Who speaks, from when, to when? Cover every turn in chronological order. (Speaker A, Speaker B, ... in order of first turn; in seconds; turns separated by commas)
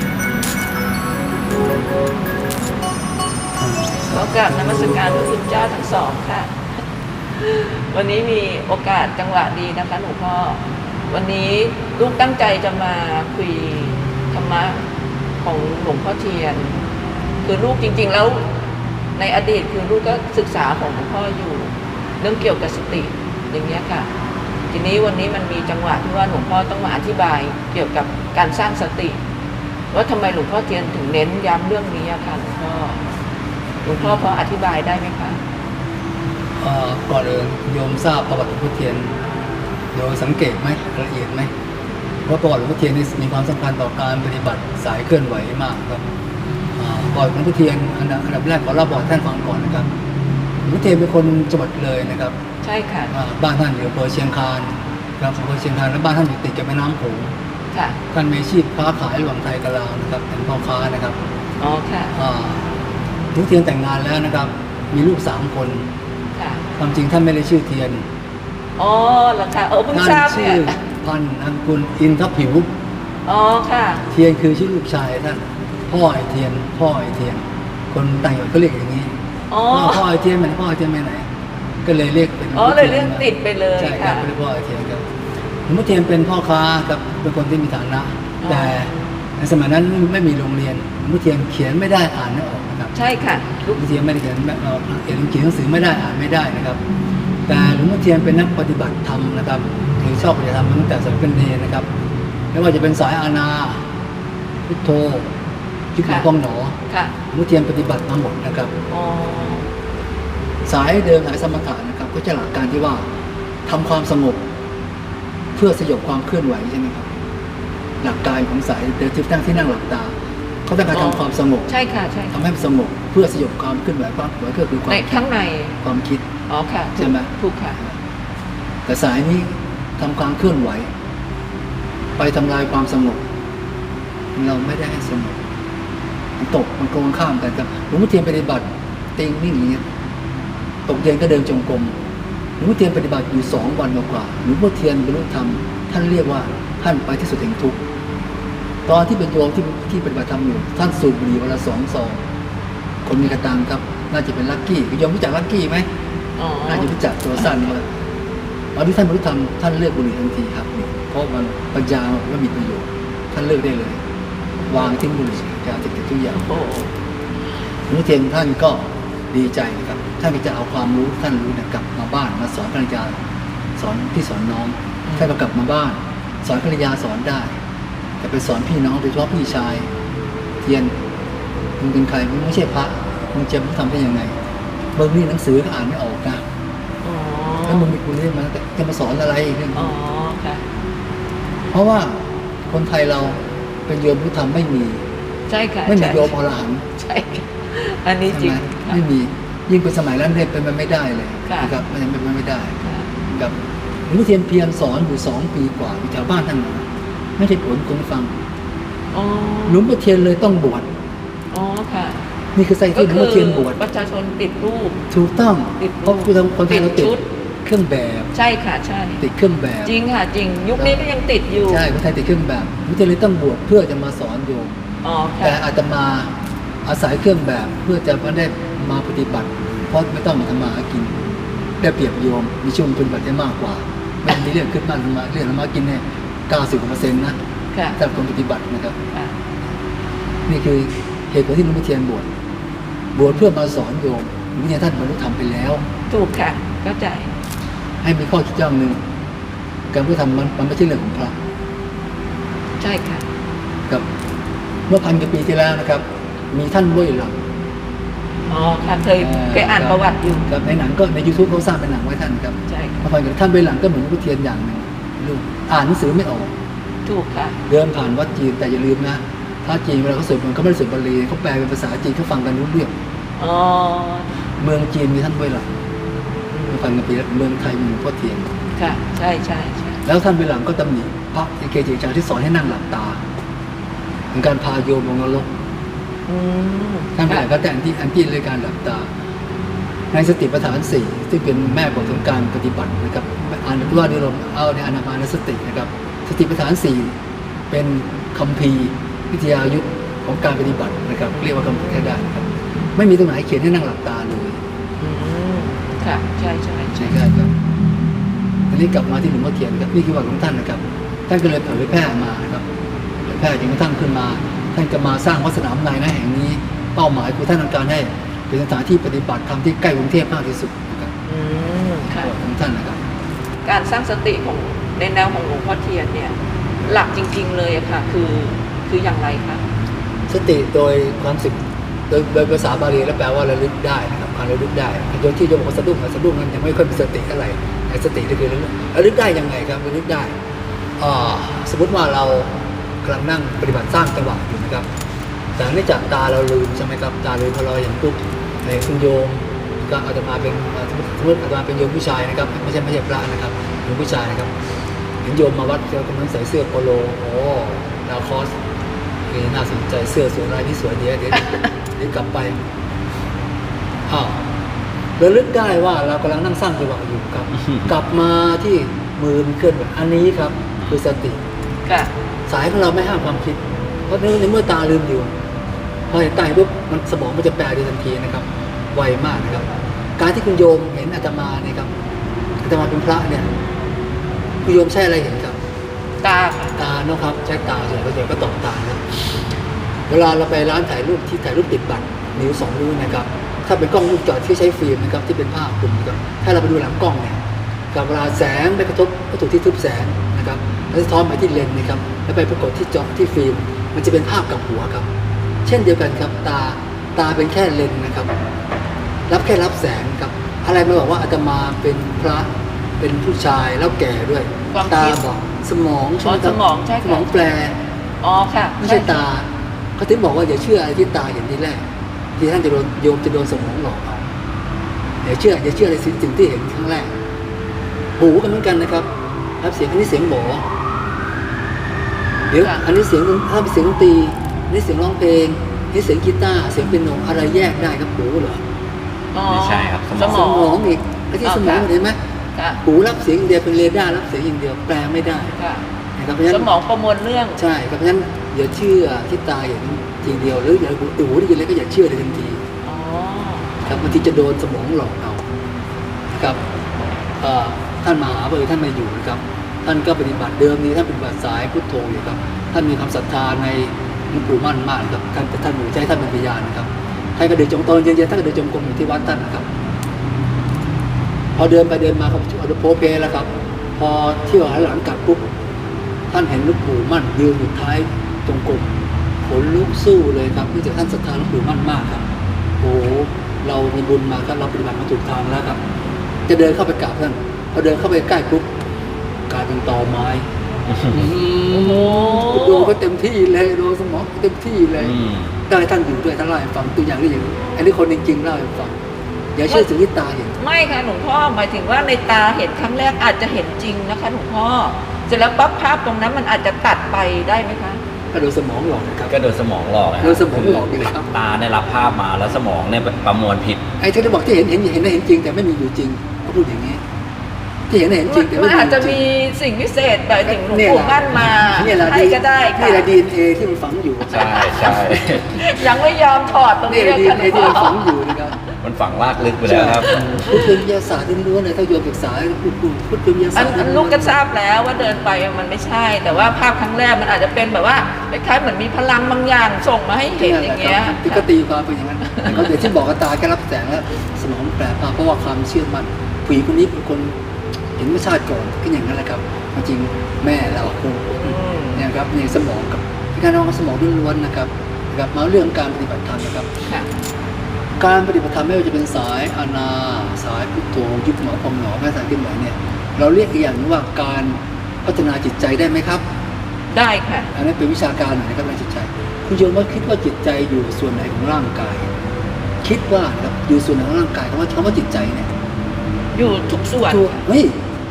Speaker A: 3.6-5.2, Speaker B: 4.1-6.5, Speaker B: 7.4-14.8, Speaker B: 15.4-16.8, Speaker B: 17.4-18.4, Speaker B: 19.1-24.1, Speaker B: 24.7-29.2, Speaker B: 29.9-33.0, Speaker B: 33.8-35.4, Speaker A: 34.0-34.3, Speaker A: 36.6-39.2, Speaker A: 39.9-41.5, Speaker A: 42.2-46.0, Speaker A: 46.8-49.9, Speaker A: 50.6-52.4, Speaker B: 52.6-53.1, Speaker A: 53.1-57.3, Speaker B: 57.7-58.0, Speaker A: 58.1-61.2, Speaker B: 61.6-62.2, Speaker A: 62.1-62.6, Speaker A: 63.3-65.9, Speaker B: 66.3-66.6, Speaker A: 66.8-68.0, Speaker B: 68.8-70.8, Speaker A: 69.9-72.7, Speaker B: 73.3-74.0, Speaker A: 74.1-79.1, Speaker B: 79.5-80.0, Speaker A: 79.7-81.3, Speaker A: 81.8-83.3, Speaker B: 82.5-84.3, Speaker A: 83.8-85.0, Speaker A: 85.7-92.9, Speaker B: 88.4-88.9, Speaker B: 92.9-93.8, Speaker A: 93.7-96.8, Speaker A: 97.5-101.9, Speaker A: 102.5-103.8, Speaker A: 104.7-105.3, Speaker A: 105.9-106.8, Speaker B: 106.9-107.1, Speaker A: 107.3-108.7, Speaker B: 108.9-109.7, Speaker A: 110.7-113.1, Speaker A: 113.7-114.4, Speaker A: 115.5-117.1, Speaker A: 118.0-120.1, Speaker A: 120.7-121.7, Speaker B: 120.9-122.3, Speaker A: 122.3-125.2, Speaker B: 124.9-125.7, Speaker A: 125.8-126.2, Speaker B: 126.5-127.8, Speaker A: 127.0-127.3, Speaker A: 128.8-130.9, Speaker A: 132.2-133.2, Speaker A: 134.3-135.4, Speaker A: 136.4-139.8, Speaker A: 140.8-142.0, Speaker A: 142.6-147.8, Speaker A: 148.8-152.2, Speaker A: 153.0-155.8, Speaker B: 156.4-157.6, Speaker A: 156.7-157.8, Speaker A: 158.7-164.0, Speaker B: 164.6-164.9, Speaker A: 164.7-166.4, Speaker B: 166.3-166.9, Speaker A: 167.9-173.2, Speaker A: 173.8-177.5, Speaker A: 178.2-179.9, Speaker A: 180.6-180.9, Speaker A: 181.8-184.3, Speaker A: 184.9-186.4, Speaker B: 187.0-187.9, Speaker A: 187.7-189.9, Speaker B: 189.7-190.6, Speaker A: 191.7-195.0, Speaker B: 195.5-196.3, Speaker A: 195.9-196.8, Speaker B: 197.0-199.0, Speaker A: 198.3-202.7, Speaker B: 201.4-201.7, Speaker B: 202.8-203.1, Speaker A: 203.3-203.5, Speaker A: 204.1-208.3, Speaker B: 209.1-209.8, Speaker A: 209.7-210.9, Speaker B: 211.5-212.2, Speaker A: 212.5-213.8, Speaker B: 212.9-215.0, Speaker A: 215.1-218.3, Speaker B: 215.8-217.2, Speaker B: 218.3-219.2, Speaker A: 219.2-219.9, Speaker B: 219.8-221.8, Speaker A: 220.8-221.0, Speaker A: 221.7-224.7, Speaker B: 225.0-225.6, Speaker A: 225.4-226.3, Speaker A: 226.8-231.2, Speaker A: 231.8-237.3, Speaker A: 237.9-238.9, Speaker A: 240.5-242.3, Speaker A: 243.1-245.8, Speaker B: 246.1-247.3, Speaker A: 248.0-249.0, Speaker A: 249.9-251.4, Speaker B: 252.8-253.2, Speaker A: 254.9-257.4, Speaker B: 258.5-260.5, Speaker A: 259.2-266.5, Speaker B: 262.7-263.0, Speaker B: 267.1-267.6, Speaker A: 267.7-272.9, Speaker B: 273.4-274.3, Speaker A: 274.6-275.7, Speaker B: 276.5-276.8, Speaker A: 276.7-278.5, Speaker B: 278.8-280.0, Speaker A: 280.0-283.2, Speaker A: 284.3-285.5, Speaker B: 286.3-287.4, Speaker A: 287.1-289.1, Speaker A: 290.1-297.1, Speaker A: 297.7-304.6, Speaker B: 301.3-302.1, Speaker B: 305.0-307.2, Speaker A: 307.0-307.5, Speaker A: 308.7-312.6, Speaker A: 313.2-321.1, Speaker B: 321.3-322.3, Speaker A: 322.2-323.0, Speaker B: 323.6-329.6, Speaker A: 330.3-331.6, Speaker A: 332.1-340.3, Speaker A: 341.0-344.9, Speaker A: 345.6-354.5, Speaker A: 355.2-358.5, Speaker A: 359.3-362.6, Speaker A: 364.1-364.4, Speaker A: 365.2-371.4, Speaker A: 372.5-375.3, Speaker A: 376.1-381.9, Speaker A: 382.6-383.5, Speaker A: 384.6-385.6, Speaker B: 386.2-386.8, Speaker A: 386.8-389.0, Speaker A: 390.1-405.1, Speaker A: 405.6-408.3, Speaker A: 409.3-417.8, Speaker B: 414.7-415.2, Speaker B: 416.2-417.3, Speaker B: 418.2-419.2, Speaker A: 418.8-421.8, Speaker A: 422.4-424.3, Speaker A: 425.2-427.1, Speaker A: 428.2-429.1, Speaker A: 429.6-430.7, Speaker A: 432.5-438.6, Speaker B: 439.3-440.8, Speaker C: 439.5-440.4, Speaker A: 440.2-442.2, Speaker B: 441.4-441.9, Speaker B: 442.5-442.8, Speaker A: 442.8-445.5, Speaker B: 445.6-445.8, Speaker A: 446.2-446.7, Speaker B: 446.5-447.6, Speaker A: 447.6-452.6, Speaker B: 452.8-453.8, Speaker A: 453.8-455.4, Speaker A: 456.3-456.6, Speaker A: 457.4-469.7, Speaker A: 471.5-475.5, Speaker A: 476.3-482.3, Speaker A: 482.8-485.8, Speaker A: 486.5-488.7, Speaker A: 489.5-490.5, Speaker C: 490.9-491.2, Speaker A: 491.1-495.1, Speaker B: 491.7-492.9, Speaker C: 495.0-495.5, Speaker A: 495.7-499.0, Speaker A: 499.5-500.5, Speaker B: 500.6-508.0, Speaker A: 508.3-509.4, Speaker C: 509.3-513.8, Speaker A: 510.2-511.3, Speaker A: 514.0-517.0, Speaker A: 517.9-519.2, Speaker B: 518.3-523.1, Speaker A: 520.5-525.2, Speaker C: 524.3-525.5, Speaker B: 525.4-528.3, Speaker A: 526.9-528.6, Speaker C: 528.8-530.5, Speaker A: 529.6-534.4, Speaker B: 530.1-530.7, Speaker B: 533.5-541.5, Speaker A: 540.3-547.3, Speaker B: 542.2-542.6, Speaker A: 548.0-556.7, Speaker B: 551.4-552.0, Speaker A: 558.0-566.2, Speaker B: 566.9-567.5, Speaker A: 567.5-572.1, Speaker A: 572.8-575.5, Speaker B: 576.3-577.4, Speaker A: 577.0-577.8